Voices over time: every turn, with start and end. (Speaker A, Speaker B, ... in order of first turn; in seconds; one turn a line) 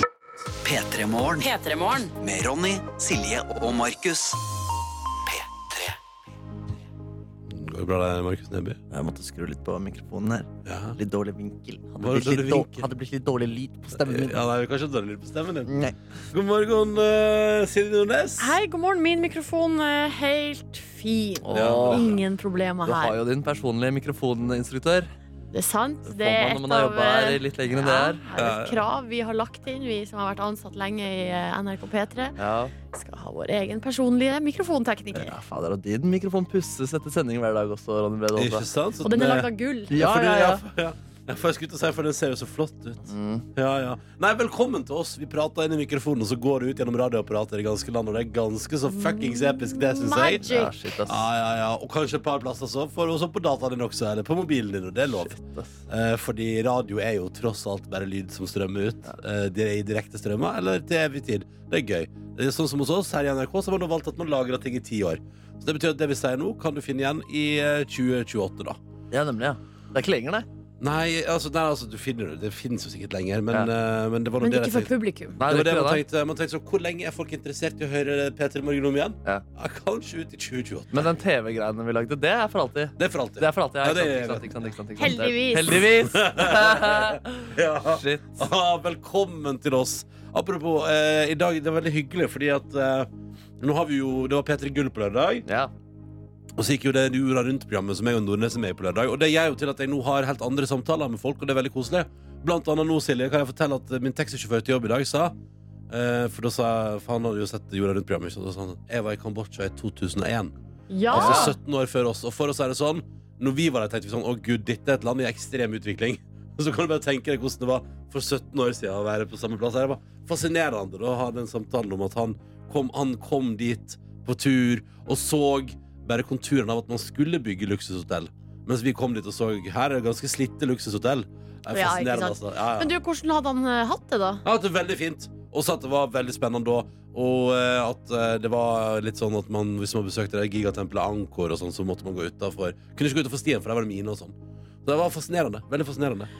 Speaker A: 0.6-4.3
Speaker A: 5.3-5.9
Speaker B: 7.5-8.8
Speaker C: 8.9-14.4
Speaker B: 10.7-11.0
Speaker B: 12.0-12.9
Speaker B: 13.9-15.7
Speaker C: 15.7-15.9
Speaker B: 16.3-18.6
Speaker D: 18.4-23.1
Speaker C: 21.5-22.0
Speaker B: 21.5-22.2
Speaker C: 22.8-25.1
Speaker D: 25.5-32.4
Speaker C: 26.1-28.2
Speaker B: 28.4-28.8
Speaker C: 32.4-32.7
Speaker D: 32.9-35.3
Speaker C: 35.1-38.7
Speaker B: 38.3-50.4
Speaker D: 39.0-40.0
Speaker C: 39.9-40.6
Speaker C: 43.1-43.4
Speaker D: 48.9-50.7
Speaker C: 50.4-51.2
Speaker B: 51.0-68.8
Speaker C: 55.1-55.8
Speaker C: 69.1-70.5
Speaker B: 70.8-81.1
Speaker D: 74.4-75.4
Speaker C: 75.4-76.0
Speaker C: 80.9-88.5
Speaker B: 83.0-84.7
Speaker D: 85.0-85.8
Speaker B: 85.7-93.1
Speaker B: 93.6-95.5
Speaker C: 95.5-95.7
Speaker B: 96.6-105.3
Speaker B: 105.9-110.5
Speaker D: 110.9-111.5
Speaker B: 111.1-132.9
Speaker C: 111.1-111.5
Speaker D: 131.7-134.4
Speaker B: 134.4-146.3